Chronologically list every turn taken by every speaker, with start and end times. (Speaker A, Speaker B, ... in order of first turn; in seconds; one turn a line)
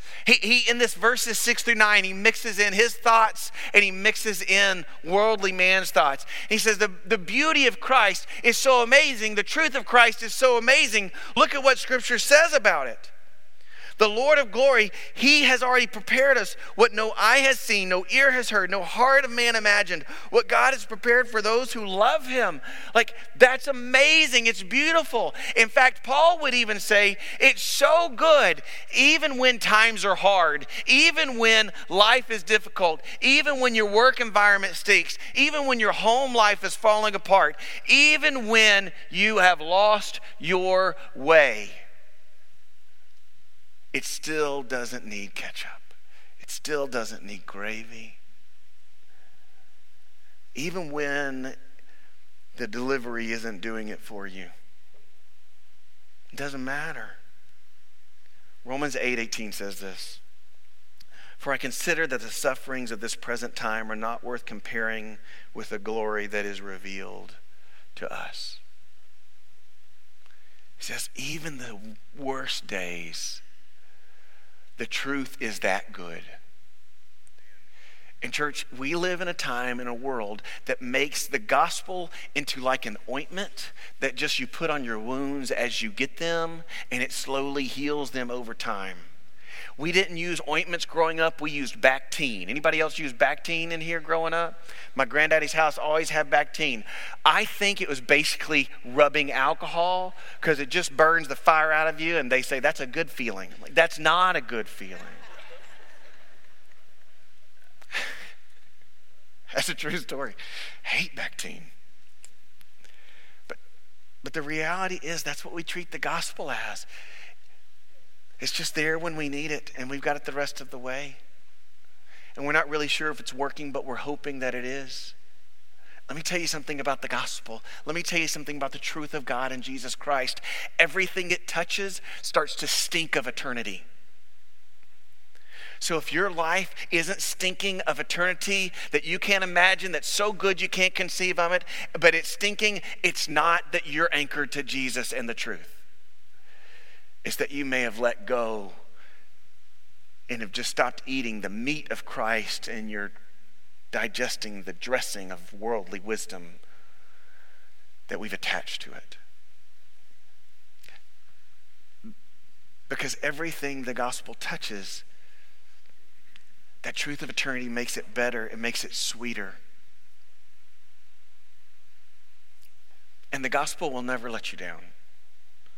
Speaker A: 0.2-13.1
Speaker A: 14.0-41.8
Speaker A: 43.9-48.2
Speaker A: 50.5-51.5
Speaker A: 52.5-54.5
Speaker A: 56.3-57.2
Speaker A: 58.6-60.2
Speaker A: 61.4-67.4
Speaker A: 67.9-68.6
Speaker A: 70.8-73.4
Speaker A: 74.8-76.3
Speaker A: 78.2-89.1
Speaker A: 89.8-105.2
Speaker A: 109.5-111.7
Speaker A: 114.2-116.9
Speaker A: 118.4-121.2
Speaker A: 122.4-125.1
Speaker A: 126.1-133.9
Speaker A: 135.8-145.8
Speaker A: 147.2-148.8
Speaker A: 150.3-153.1
Speaker A: 153.9-156.6
Speaker A: 158.1-159.2
Speaker A: 162.9-165.1
Speaker A: 166.8-169.6
Speaker A: 173.3-174.9